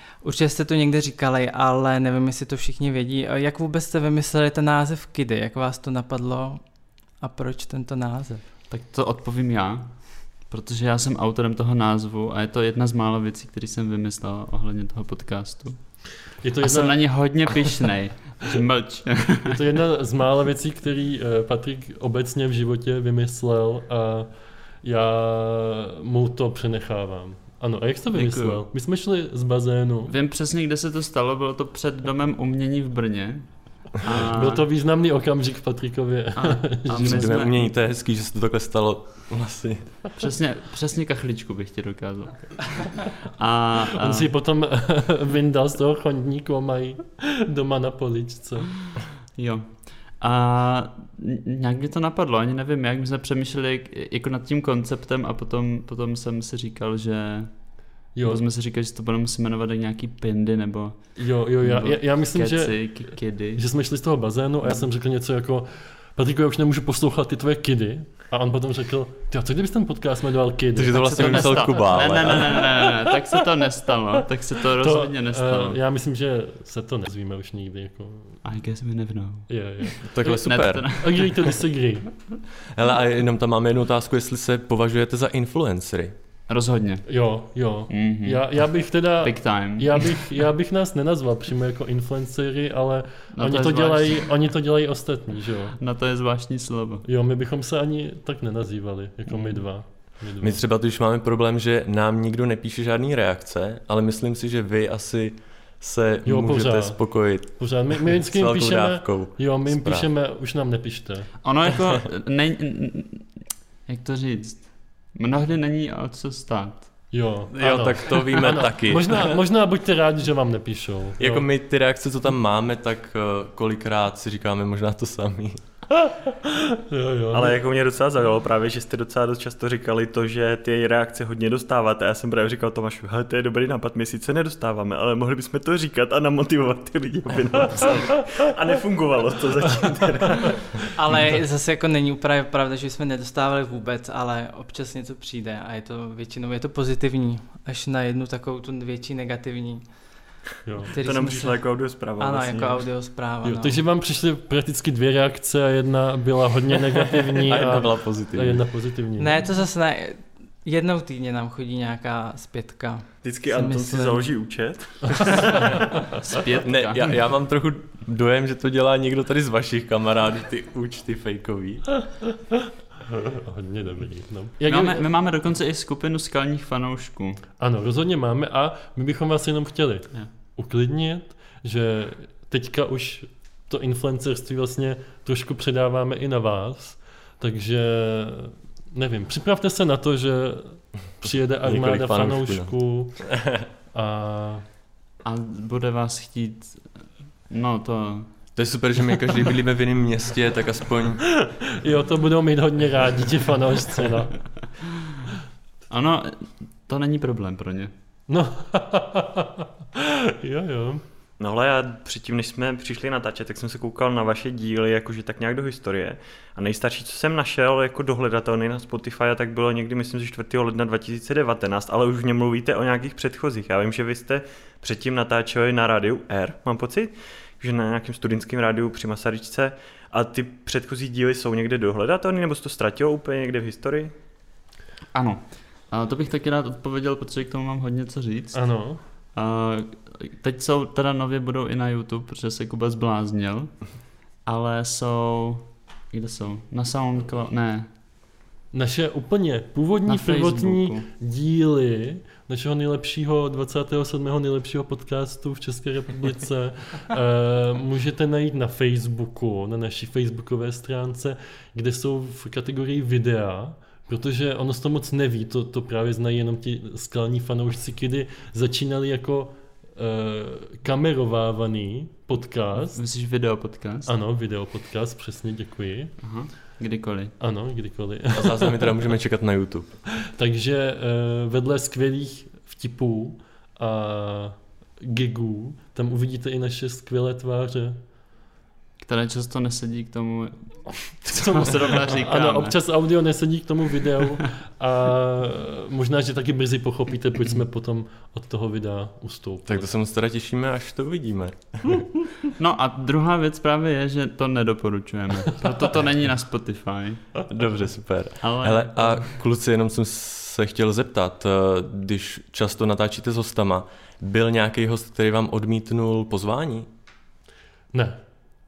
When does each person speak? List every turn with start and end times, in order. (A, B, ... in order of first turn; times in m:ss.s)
0:00.2-0:06.6 A
0:07.2-0:08.4 A
0:08.7-0:15.8 B
0:16.4-0:17.8 C
0:16.6-0:19.6 B
0:19.4-0:24.3 C
0:24.8-0:30.1 C
0:28.1-0:28.6 B
0:30.1-0:34.6 B
0:34.0-0:37.3 C
0:36.4-0:37.6 B
0:37.0-0:39.8 D
0:40.2-0:44.3 B
0:43.9-0:48.7 C
0:49.3-0:57.5 B
0:58.1-0:58.4 C
0:58.2-1:03.6 B
1:01.2-1:11.6 C
1:10.7-1:12.6 D
1:10.9-1:15.8 B
1:12.5-1:13.2 C
1:14.7-1:18.4 C
1:18.4-1:21.5 B
1:19.5-1:20.1 C
1:20.0-1:20.9 D
1:20.9-1:22.1 C
1:22.7-1:26.1 D
1:26.5-1:27.0 B
1:27.1-1:35.8 C
1:27.9-1:28.4 B
1:29.2-1:30.2 B
1:33.3-1:34.3 B
1:35.8-1:37.0 B
1:37.0-1:40.6 C
1:39.3-1:39.6 B
1:40.4-1:50.1 D
1:46.2-1:51.3 C
1:51.4-1:53.3 B
1:53.8-1:57.0 B
1:57.1-2:01.5 C
1:57.5-1:59.4 D
2:01.2-2:05.6 D
2:05.9-2:07.6 C
2:07.3-2:20.8 E
2:20.9-2:29.8 A
2:30.6-2:30.9 C
2:30.9-2:31.6 A
2:31.0-2:32.8 E
2:32.2-2:33.8 A
2:33.4-2:39.4 C
2:37.4-2:38.6 D
2:39.2-2:44.3 A
2:43.2-2:45.7 E
2:45.5-2:47.1 B
2:46.6-2:51.8 D
2:53.1-2:55.0 C
2:54.6-2:57.4 B
2:57.6-3:13.3 C
3:11.6-3:12.7 D
3:13.2-3:13.6 D
3:13.9-3:14.6 C
3:15.2-3:18.3 B
3:18.6-3:21.2 D
3:21.2-3:24.5 C
3:25.9-3:27.9 B
3:28.3-3:31.0 C
3:31.4-3:54.1 E
3:55.1-3:58.6 B
3:58.5-3:59.0 C
3:59.3-4:03.8 B
4:04.4-4:07.9 B
4:08.7-4:33.0 C
4:10.0-4:11.0 B
4:32.9-4:34.1 B
4:34.0-4:36.2 C
4:36.2-4:37.3 B
4:37.4-4:38.9 C
4:38.3-4:39.9 D
4:40.3-4:48.0 C
4:49.0-4:52.8 B
4:51.2-4:59.9 C
4:59.6-5:02.0 D
5:02.6-5:07.3 B
5:07.5-5:16.9 D
5:08.4-5:09.3 B
5:17.9-5:18.2 C